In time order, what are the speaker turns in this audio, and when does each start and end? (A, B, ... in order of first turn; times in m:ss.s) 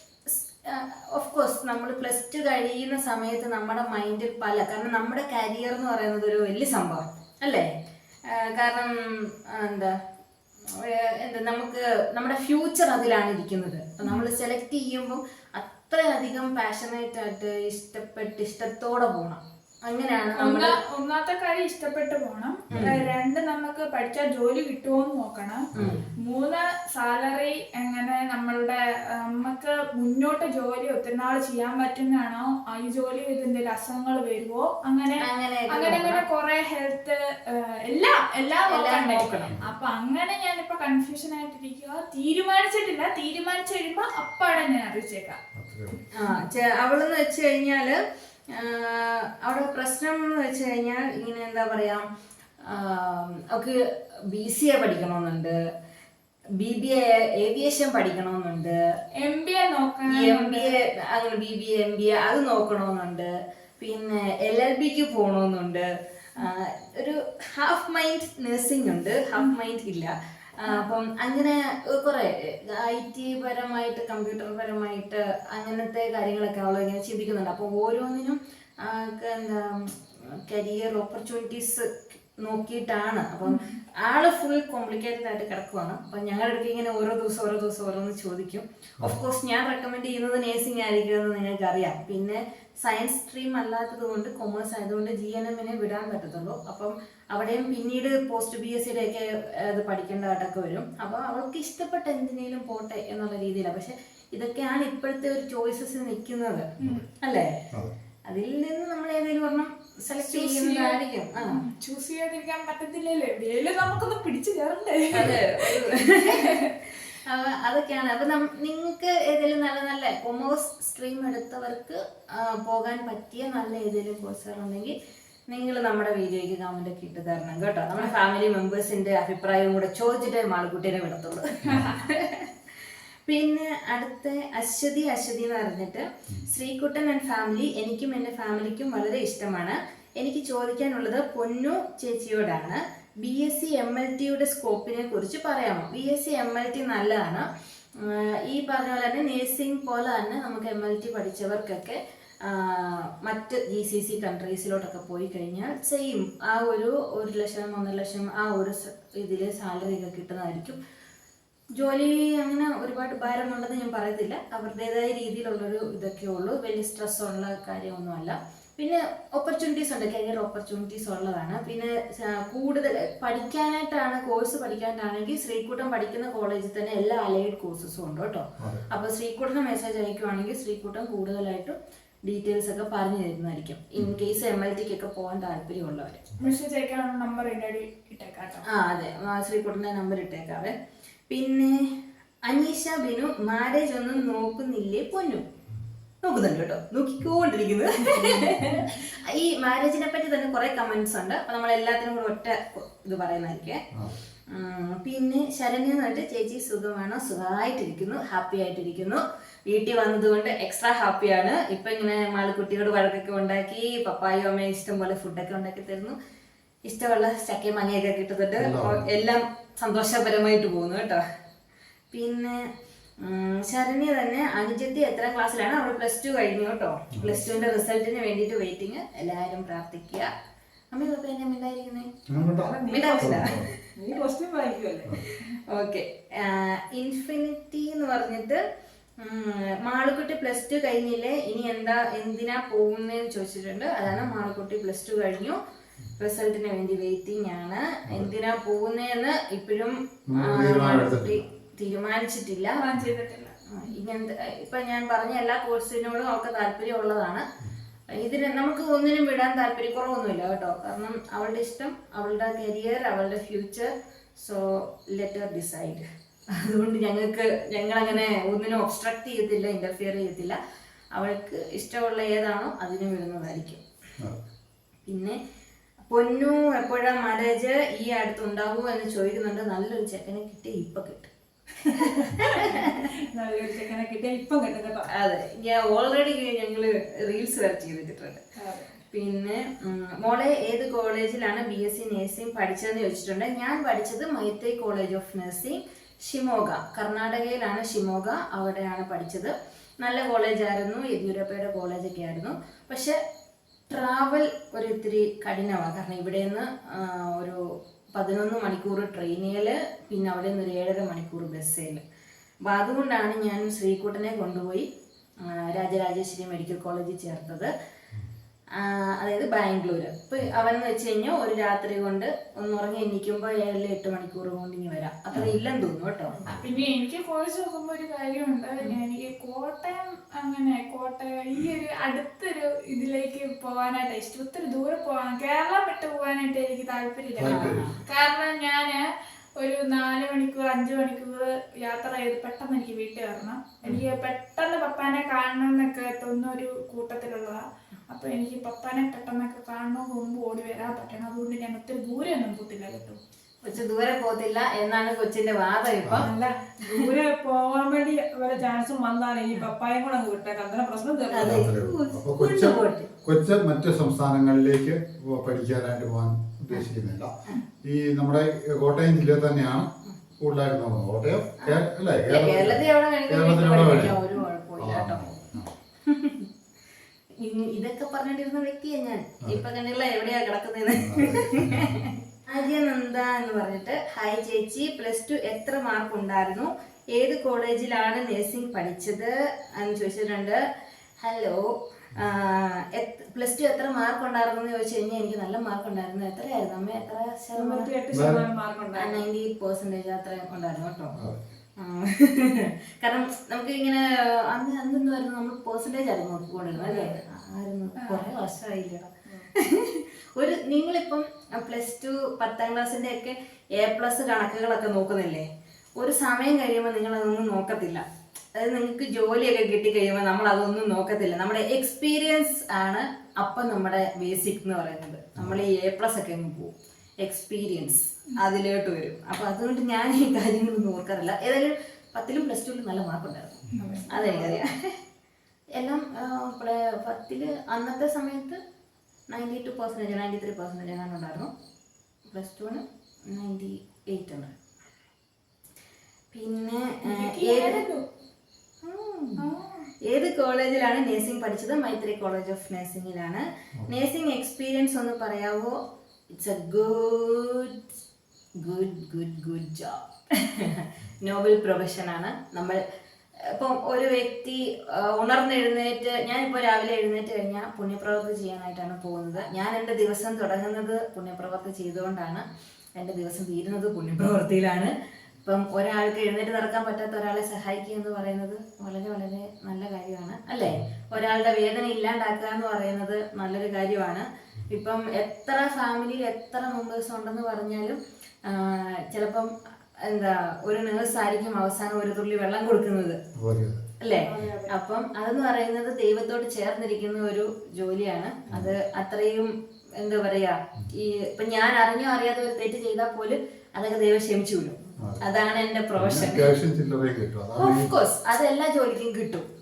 0:00.3-0:07.7 A
0:08.3-0:10.0 A
0:10.6-0:20.8 A
0:20.4-0:25.7 B
0:22.7-0:23.0 C
0:25.7-0:26.0 C
0:25.7-0:26.0 A
0:26.2-0:45.4 B
0:35.2-0:36.2 A
0:38.7-0:39.5 A
0:45.5-0:46.0 C
0:46.1-0:52.0 A
0:52.6-0:55.6 A
0:56.6-0:58.8 A
0:59.1-1:00.8 B
1:00.1-1:05.8 A
1:06.4-1:46.7 A
1:23.4-1:23.8 B
1:46.8-1:47.1 C
1:47.2-1:47.6 A
1:48.3-1:51.6 A
1:50.2-1:56.7 B
1:55.1-2:04.9 A
2:05.5-2:12.5 A
2:11.6-2:12.0 B
2:11.7-2:11.9 C
2:13.3-2:40.8 A
2:41.7-3:06.2 A
2:58.6-2:58.8 C
3:06.4-3:08.6 B
3:08.6-3:10.7 A
3:11.3-3:11.9 A
3:12.4-3:15.4 A
3:16.2-3:23.8 A
3:24.5-3:36.1 A
3:36.8-3:41.2 A
3:38.6-3:39.0 C
3:42.1-3:42.6 A
3:43.2-3:50.3 A
3:47.1-3:47.4 C
3:50.9-3:52.1 A
3:52.3-3:53.7 C
3:52.5-3:55.2 D
3:52.9-3:53.6 A
3:55.3-3:58.6 A
3:59.2-4:05.6 A
4:06.2-4:12.8 A
4:10.3-4:11.4 C
4:12.8-4:13.6 B
4:13.7-4:17.4 A
4:18.1-4:30.6 A
4:31.1-4:33.8 A
4:35.0-4:35.4 A
4:36.1-4:41.3 A
4:41.9-4:45.1 D
4:41.9-4:43.1 A
4:45.1-4:48.4 A
4:48.6-4:49.0 D
4:49.1-5:03.2 A
5:03.9-5:12.0 A
5:12.6-5:14.9 A
5:15.4-5:17.7 A
5:18.7-5:26.3 A
5:26.5-5:39.0 B
5:37.4-5:37.9 C
5:37.4-5:38.0 A
5:39.6-5:53.2 B
5:53.6-5:56.3 A
5:56.2-6:01.7 D
6:01.3-6:03.1 A
6:01.4-6:07.3 C
6:07.8-6:14.2 C
6:11.6-6:15.2 A
6:14.8-6:15.7 C
6:16.0-6:16.5 A
6:17.4-6:30.6 A
6:20.9-6:22.0 C
6:31.2-6:37.9 A
6:37.6-6:39.2 D
6:38.1-6:38.4 C
6:39.0-6:41.1 A
6:41.1-6:41.4 C
6:41.8-6:55.4 A
6:46.7-6:47.2 D
6:56.0-7:15.0 A
7:13.8-7:14.6 D
7:15.7-7:18.6 A
7:19.3-7:21.5 A
7:22.3-7:24.5 A
7:26.3-7:27.8 A
7:27.0-7:28.0 B
7:28.8-7:29.4 A
7:29.4-7:29.9 B
7:30.0-7:35.8 A
7:36.4-7:37.8 A
7:38.6-7:42.8 A
7:43.4-7:52.4 A
7:53.0-7:54.9 A
7:55.4-8:13.2 A
8:13.4-8:13.8 C
8:14.0-8:26.5 A
8:14.1-8:14.7 D
8:25.9-8:27.9 C
8:27.6-8:29.4 A